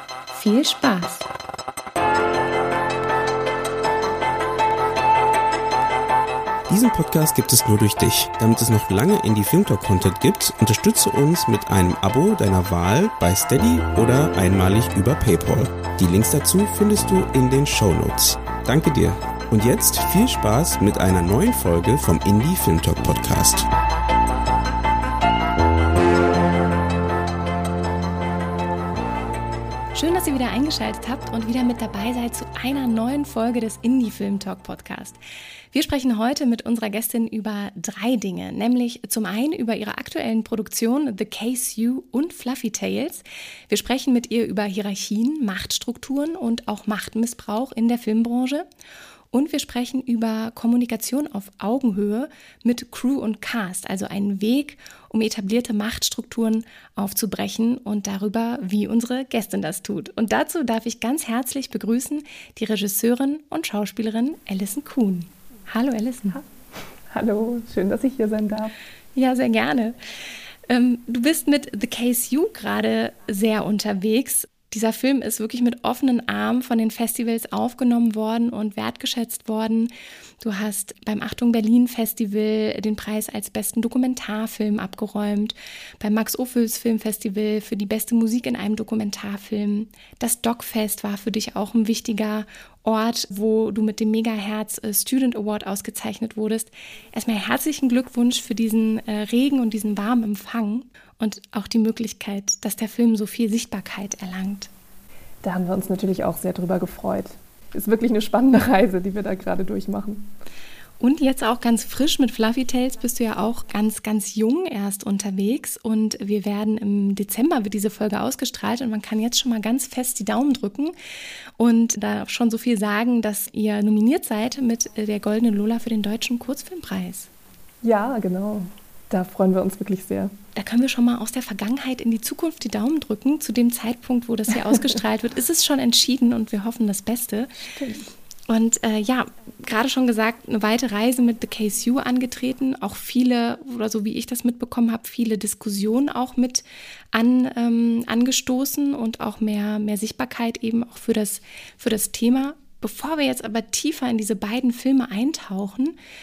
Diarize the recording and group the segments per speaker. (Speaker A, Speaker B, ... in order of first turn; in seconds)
Speaker A: 0.3-1.2, 29.9-35.2, 35.7-48.6, 49.3-66.4, 69.1-70.0, 70.7-104.7, 111.0-120.9, 121.6-127.3, 130.5-137.5, 138.5-155.9
Speaker B: 6.7-23.7
Speaker C: 67.1-68.7, 105.4-110.3, 127.8-130.3, 137.8-138.1